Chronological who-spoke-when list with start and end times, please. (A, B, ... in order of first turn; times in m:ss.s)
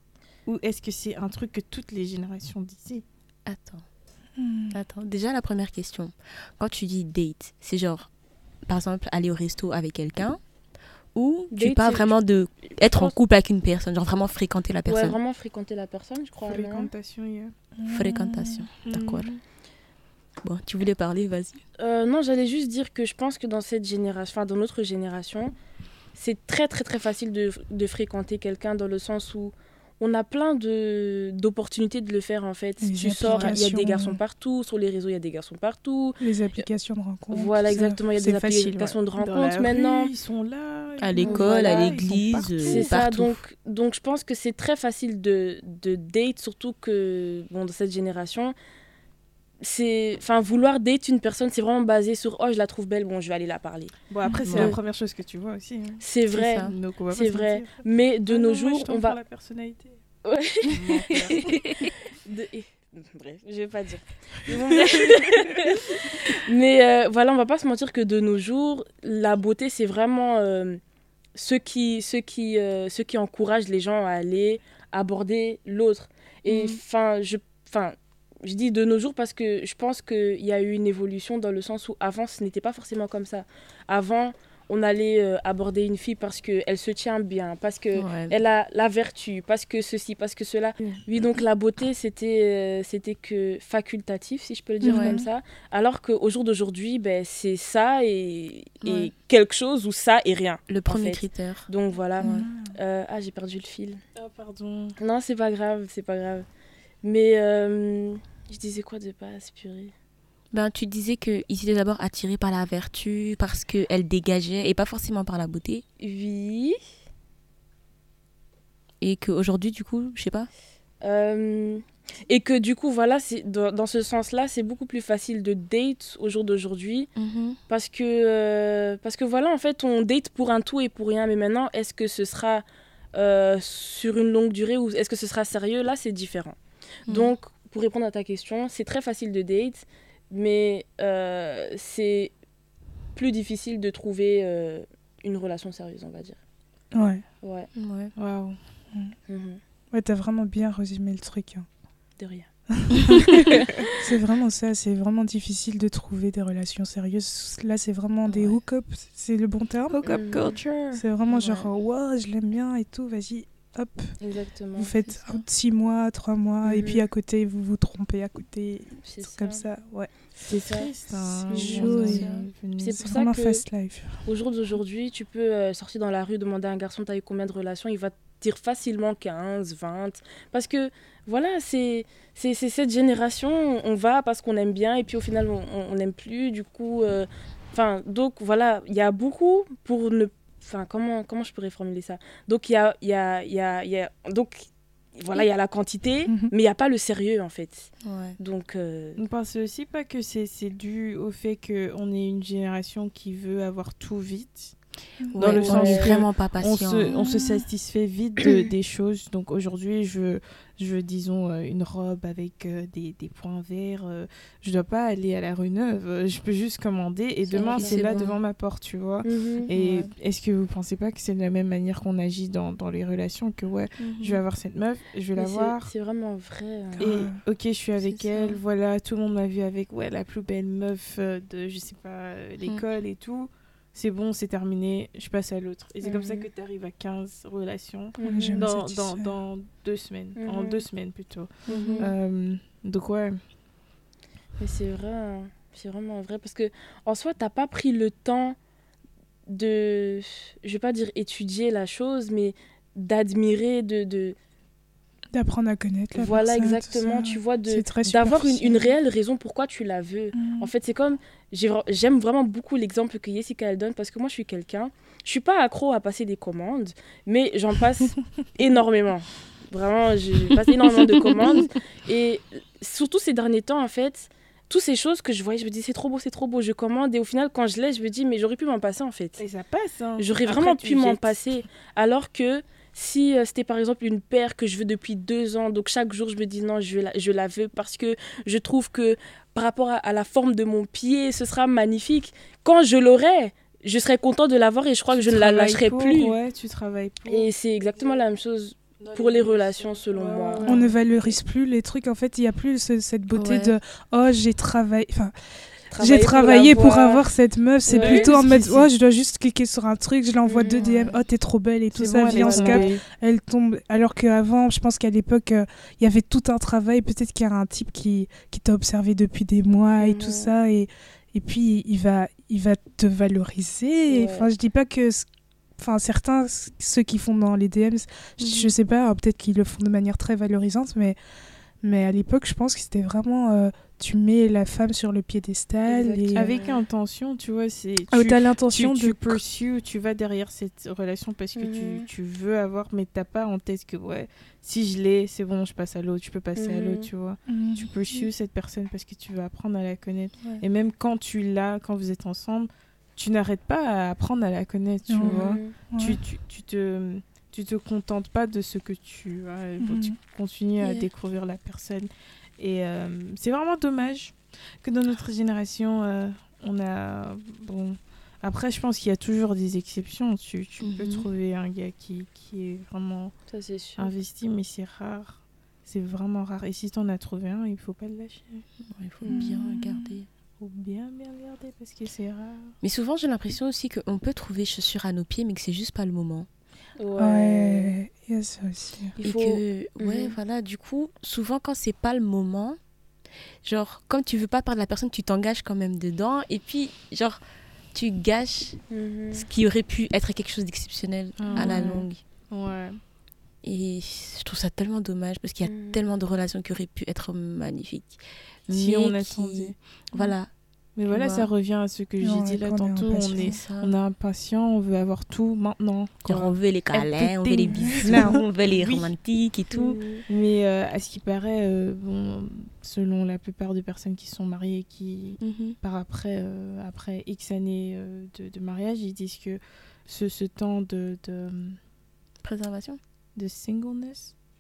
0:00.5-0:03.0 A
0:03.5-0:03.8 B
0:04.4-0:04.8 C
0:04.7-0:08.1 B
0:08.7-0:10.4 B
0:11.2-0:15.2 B
0:11.5-0:12.1 D
0:12.7-0:13.2 D
0:14.9-0:16.9 D
0:16.4-0:17.5 A
0:17.8-0:18.7 C
0:17.9-0:19.4 B
0:18.8-0:19.3 A
0:20.4-0:21.6 B
0:21.8-0:25.5 D
0:26.1-0:36.2 D
0:32.8-0:34.2 C
0:33.2-0:33.6 B
0:36.2-0:39.0 C
0:37.3-0:40.1 D
0:39.2-0:43.0 A
0:41.0-0:43.4 B
0:41.2-0:42.0 D
0:42.6-0:48.6 D
0:49.6-0:54.0 D
0:54.1-0:56.0 A
0:54.2-0:54.6 C
0:54.4-0:54.8 B
0:56.0-0:59.2 D
0:56.3-0:56.7 B
0:56.6-1:00.0 A
1:00.2-1:10.8 D
1:00.6-1:01.5 A
1:11.4-1:44.0 D
1:16.5-1:16.8 B
1:28.0-1:28.4 B
1:34.8-1:35.3 C
1:34.8-1:35.2 B
1:38.8-1:39.1 B
1:40.7-1:41.7 B
1:42.2-1:42.5 B
1:42.2-1:42.7 C
1:44.2-1:45.0 A
1:45.0-1:46.5 D
1:47.0-1:49.9 D
1:50.5-1:55.8 B
1:56.0-1:56.8 D
1:59.0-2:00.5 B
2:01.0-2:07.1 D
2:07.2-2:07.6 B
2:07.7-2:16.6 D
2:17.1-2:22.3 D
2:23.2-2:26.4 D
2:26.9-2:27.2 C
2:27.4-2:27.7 D
2:27.8-2:28.1 B
2:28.2-2:28.6 A
2:29.3-2:29.6 D
2:29.9-2:31.7 C
2:32.2-2:32.5 D
2:32.8-2:40.1 C
2:33.3-2:33.8 D
2:38.3-2:38.6 B
2:39.9-2:41.0 A
2:40.1-2:40.6 D
2:40.9-2:44.2 C
2:41.3-2:41.7 D
2:44.2-2:44.9 D
2:44.8-2:50.1 C
2:45.0-2:45.4 B
2:46.6-2:47.1 D
2:49.0-2:49.6 D
2:50.4-2:53.2 A
2:50.6-2:50.9 D
2:51.3-2:52.3 C
2:51.5-2:52.1 D
2:51.8-2:52.5 B
2:52.8-2:53.6 D
2:53.0-2:54.2 C
2:54.2-3:19.2 D
3:16.3-3:16.5 C
3:18.0-3:18.4 B
3:19.2-3:45.9 A
3:25.3-3:27.2 B
3:25.5-3:26.2 D
3:27.2-3:27.6 C
3:37.5-3:38.3 D
3:37.6-3:38.4 B
3:39.2-3:39.7 D
3:39.7-3:40.1 B
3:44.0-3:44.4 B
3:45.4-3:47.1 D
3:47.0-3:47.4 C
3:47.0-4:03.4 A
3:48.0-3:48.6 B
3:56.0-3:56.5 D
3:58.2-3:58.7 D
3:58.2-3:59.3 C
4:00.4-4:00.9 D
4:01.7-4:02.1 D
4:01.7-4:02.1 B
4:04.6-4:08.6 D
4:09.5-4:14.4 D
4:15.3-4:19.0 C
4:16.2-4:39.4 D
4:20.3-4:20.7 C
4:39.4-4:41.3 A
4:40.2-4:56.4 D
4:55.1-4:58.2 A
4:57.3-5:00.9 D
4:59.0-5:01.1 A
5:00.6-5:25.3 C
5:03.3-5:03.8 B
5:05.9-5:07.3 D
5:07.9-5:08.3 D
5:07.9-5:08.9 A
5:10.4-5:11.2 D
5:11.9-5:13.0 A
5:12.3-5:12.9 D
5:20.0-5:20.5 D
5:24.1-5:24.5 D
5:25.8-5:31.2 C
5:28.4-5:28.7 B
5:31.8-5:36.5 C
5:35.9-6:13.3 A
5:36.5-5:36.8 D
5:38.1-5:39.4 C
5:41.6-5:42.0 D
5:46.6-5:47.1 D
5:47.5-5:47.9 C
5:55.1-5:56.2 C
5:55.2-5:55.8 D
5:59.8-6:00.2 C
6:00.8-6:01.1 B
6:10.8-6:11.3 B
6:13.5-6:14.1 D
6:14.0-6:18.7 A
6:18.9-6:20.3 B
6:19.2-6:19.5 D
6:19.3-6:20.2 C
6:20.6-6:22.8 A
6:22.8-6:26.5 B
6:27.0-6:28.0 D
6:27.2-6:29.2 C
6:29.2-6:30.4 D
6:29.2-6:32.8 B
6:33.6-6:37.4 B
6:37.9-6:42.2 B
6:38.9-6:39.5 D
6:41.4-6:43.0 A
6:41.5-6:41.8 C
6:43.6-6:50.5 B
6:45.6-6:46.0 D
6:48.7-6:49.8 A
6:51.0-6:56.3 A
6:51.1-6:51.5 C
6:52.2-6:53.6 C
6:53.4-6:54.0 B
6:56.2-7:00.0 B
6:56.9-6:59.1 A
6:57.9-6:58.4 C
6:59.7-7:00.2 D
7:00.3-7:11.8 A
7:05.4-7:05.8 B
7:12.4-7:13.0 B
7:13.4-7:14.4 A